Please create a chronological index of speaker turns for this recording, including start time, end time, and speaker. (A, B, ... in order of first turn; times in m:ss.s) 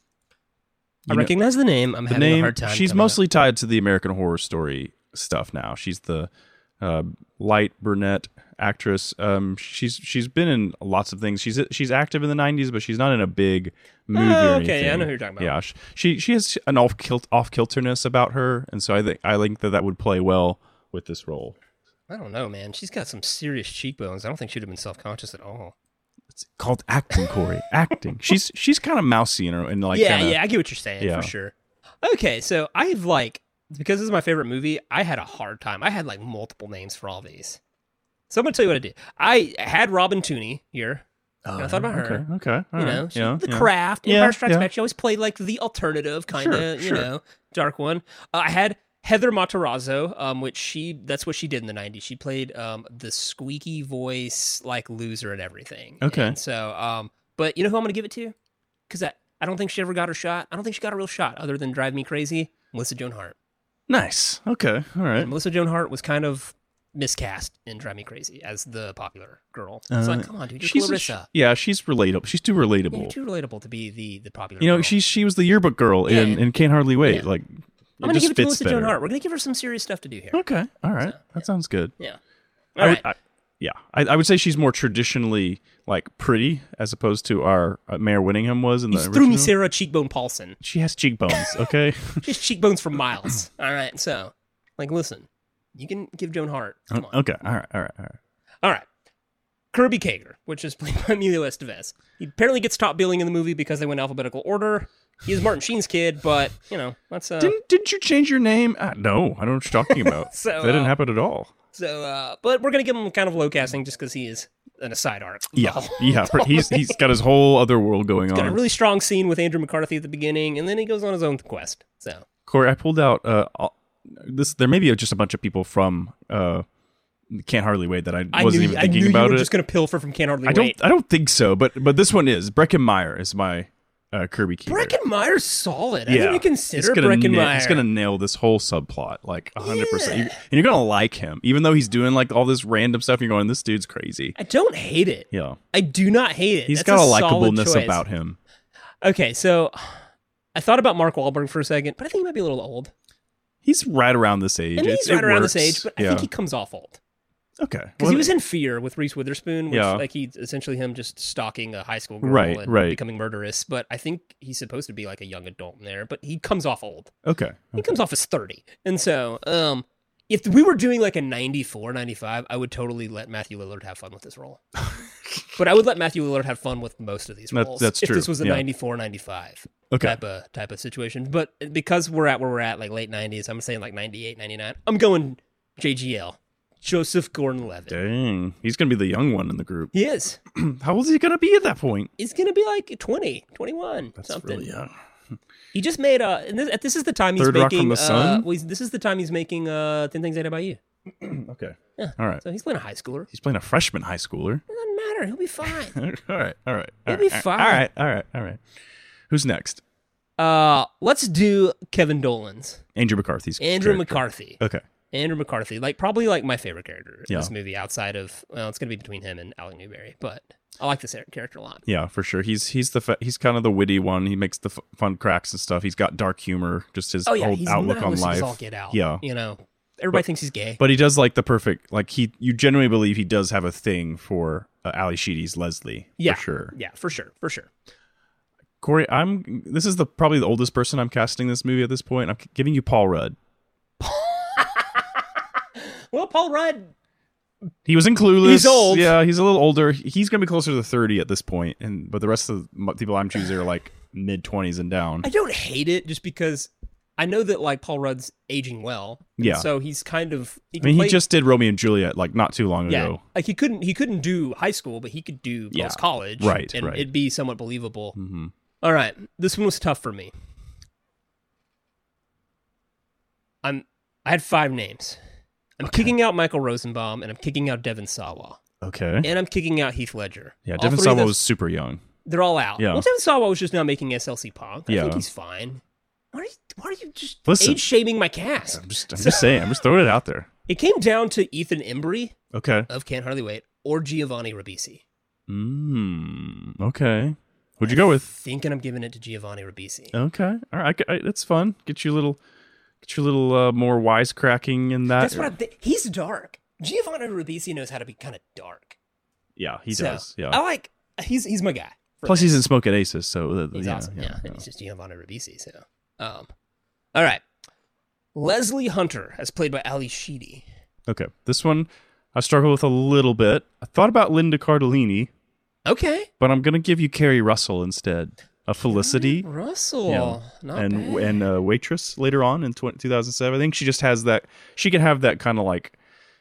0:01.1-0:03.2 A
0:02.1-0:21.6 B
0:14.1-0:15.5 A
0:22.1-0:25.7 A
0:26.3-0:30.4 B
0:29.9-0:37.6 A
0:31.0-0:31.3 B
0:38.3-0:42.2 A
0:41.5-0:44.7 B
0:42.8-0:58.4 A
0:46.4-0:47.1 B
0:56.0-0:56.4 B
0:58.9-1:03.4 A
1:03.9-1:05.3 B
1:05.2-1:11.3 A
1:09.9-1:13.1 B
1:12.9-1:15.0 A
1:14.6-1:19.0 B
1:16.1-1:16.4 A
1:18.0-1:20.4 A
1:20.3-1:21.9 B
1:21.0-1:21.4 A
1:22.8-1:23.1 A
1:22.8-1:29.5 B
1:28.9-1:30.6 A
1:30.6-1:32.3 B
1:32.2-1:37.2 A
1:36.9-1:38.2 B
1:39.7-1:47.6 A
1:47.4-1:51.5 B
1:49.9-1:51.0 A
1:51.7-1:57.0 A
1:55.6-1:58.6 B
1:58.3-2:02.2 A
2:02.5-2:06.6 B
2:07.3-2:09.5 B
2:08.3-2:10.8 A
2:10.5-2:15.0 B
2:14.7-2:17.8 A
2:16.1-2:24.4 B
2:19.6-2:20.4 A
2:24.4-2:28.0 A
2:25.3-2:25.6 B
2:26.7-2:28.4 B
2:29.0-2:32.9 A
2:33.6-2:36.3 B
2:34.8-2:37.0 A
2:37.6-2:38.3 B
2:38.0-2:47.1 A
2:39.7-2:40.0 B
2:42.2-2:43.0 B
2:47.2-2:47.9 B
2:47.8-2:54.6 A
2:55.6-3:08.0 A
2:57.5-2:58.6 B
2:59.9-3:00.2 B
3:07.9-3:09.9 B
3:09.9-3:10.4 A
3:10.5-3:12.1 B
3:12.2-3:14.7 A
3:14.2-3:14.9 B
3:15.7-3:20.8 A
3:17.4-3:18.5 B
3:21.2-3:22.4 B
3:22.0-3:23.3 A
3:23.3-3:24.6 B
3:24.7-3:26.0 A
3:25.9-3:28.6 B
3:27.1-3:27.8 A
3:29.3-3:29.8 B
3:30.4-3:32.8 A
3:33.0-3:34.8 B
3:33.6-3:34.6 A
3:35.1-3:41.8 A
3:41.9-3:49.2 B
3:47.3-3:50.8 A
3:50.8-3:56.7 B
3:56.2-3:57.7 A
3:58.8-4:03.4 B
4:04.0-4:05.2 A
4:05.8-4:06.9 A
4:07.9-4:15.3 B
4:08.4-4:09.2 A
4:15.2-4:21.2 A
4:19.4-4:19.7 B
4:20.8-4:23.2 B
4:22.9-4:28.2 A
4:25.7-4:27.1 B
4:28.2-4:28.5 B
4:28.8-4:30.3 A
4:33.6-4:35.2 A
4:35.8-4:38.6 A
4:35.8-4:36.1 B
4:38.8-4:39.3 B
4:39.2-4:41.4 A
4:40.7-4:42.0 B
4:42.2-4:45.8 A
4:42.8-4:43.0 B
4:44.9-4:45.2 B
4:46.3-4:49.7 A
4:47.5-4:47.8 B
4:48.7-4:50.5 B
4:50.7-4:52.4 A
4:52.5-4:52.9 B
4:52.9-4:55.0 A
4:55.5-4:58.3 B
4:57.9-5:00.2 A
5:00.1-5:02.4 B
5:03.0-5:05.5 B
5:05.2-5:09.0 A
5:09.6-5:10.6 B
5:09.9-5:12.6 A
5:12.3-5:14.6 B
5:13.7-5:16.5 A
5:17.2-5:17.4 A
5:18.4-5:20.7 A
5:21.1-5:25.3 B
5:25.9-5:26.3 A
5:26.4-5:29.5 B
5:28.9-5:31.4 A
5:30.1-5:36.0 B